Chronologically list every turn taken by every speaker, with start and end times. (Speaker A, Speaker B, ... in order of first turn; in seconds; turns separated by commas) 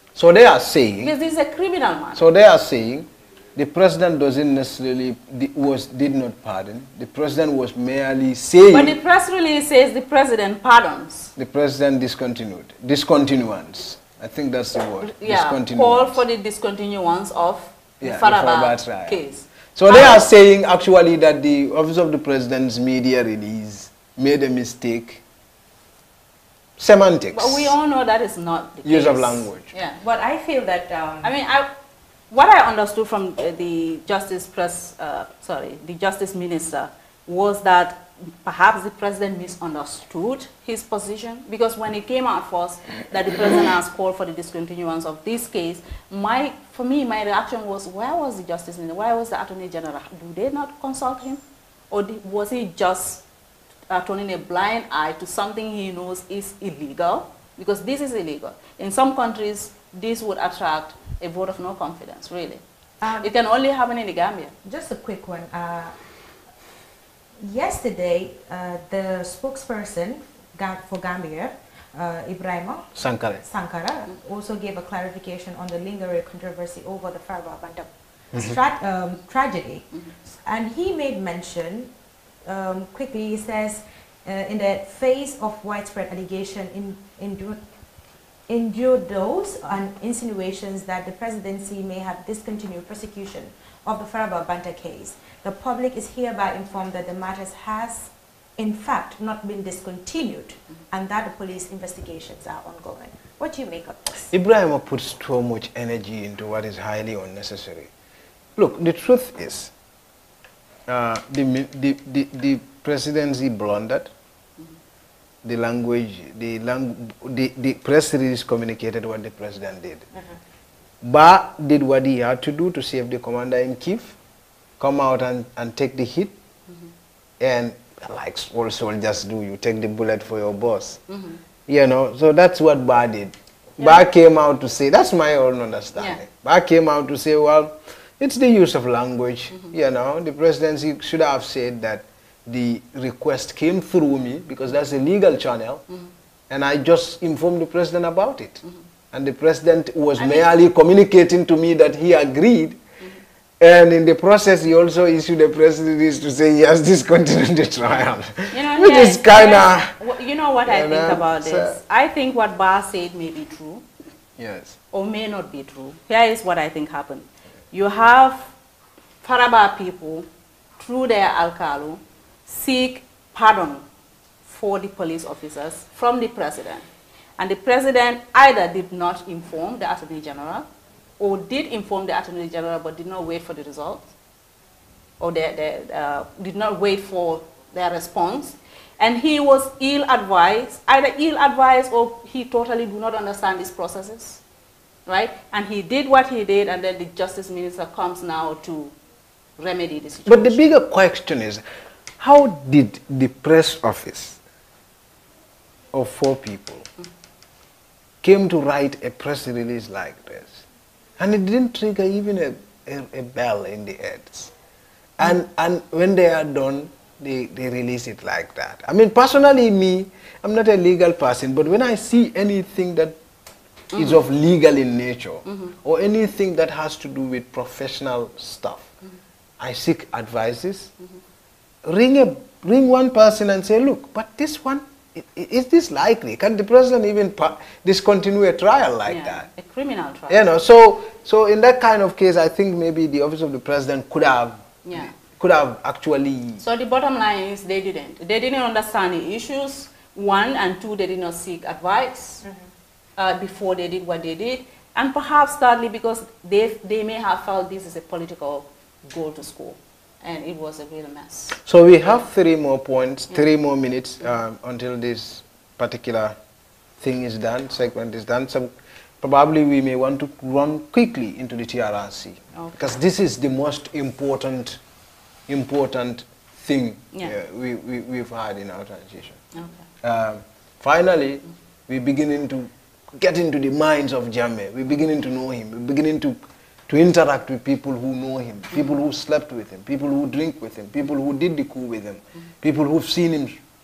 Speaker A: 0.1-1.1, Speaker B: 1.0-2.2, Speaker A: 2.1-9.0, Speaker B: 8.7-11.3, Speaker A: 11.4-16.2, Speaker B: 15.0-20.3, Speaker A: 18.0-19.2, Speaker A: 19.8-25.2, Speaker A: 26.8-27.8, Speaker B: 27.3-30.0, Speaker A: 28.8-29.7, Speaker C: 30.0-31.3, Speaker B: 31.2-31.7, Speaker B: 32.3-53.2, Speaker B: 53.9-62.6, Speaker C: 63.0-63.3, Speaker B: 63.2-64.5, Speaker C: 64.7-66.0, Speaker C: 67.4-72.9, Speaker A: 73.0-73.4, Speaker C: 73.4-81.9, Speaker C: 82.5-87.6, Speaker C: 88.5-104.3, Speaker A: 104.3-107.9, Speaker A: 108.6-109.7, Speaker A: 110.9-114.1, Speaker A: 115.4-120.1, Speaker A: 121.0-124.2, Speaker A: 124.8-126.3, Speaker A: 127.4-131.0, Speaker B: 131.1-131.4, Speaker A: 131.7-145.8, Speaker B: 133.8-134.0, Speaker A: 146.5-148.6, Speaker A: 149.1-152.8, Speaker B: 150.2-150.5, Speaker A: 153.6-159.9, Speaker B: 158.5-163.8, Speaker A: 160.7-161.8, Speaker A: 164.4-164.8, Speaker B: 164.9-168.5, Speaker B: 169.2-173.9, Speaker B: 174.5-176.9, Speaker B: 177.4-180.7, Speaker B: 181.2-184.1, Speaker B: 185.2-194.4, Speaker B: 195.1-198.9, Speaker B: 199.6-200.7, Speaker A: 200.3-201.6, Speaker A: 202.2-204.4, Speaker A: 205.9-206.9, Speaker A: 208.2-210.6, Speaker A: 211.2-214.5, Speaker A: 215.2-223.2, Speaker A: 223.9-228.9, Speaker B: 225.5-225.7, Speaker A: 229.6-230.9, Speaker A: 231.8-239.5, Speaker B: 239.1-240.4, Speaker A: 240.3-246.6, Speaker B: 244.8-245.1, Speaker B: 246.6-252.4, Speaker B: 253.2-261.6, Speaker A: 261.6-266.4, Speaker A: 267.0-274.8, Speaker B: 272.6-272.9, Speaker A: 275.5-279.4, Speaker B: 279.5-279.9, Speaker A: 280.0-293.6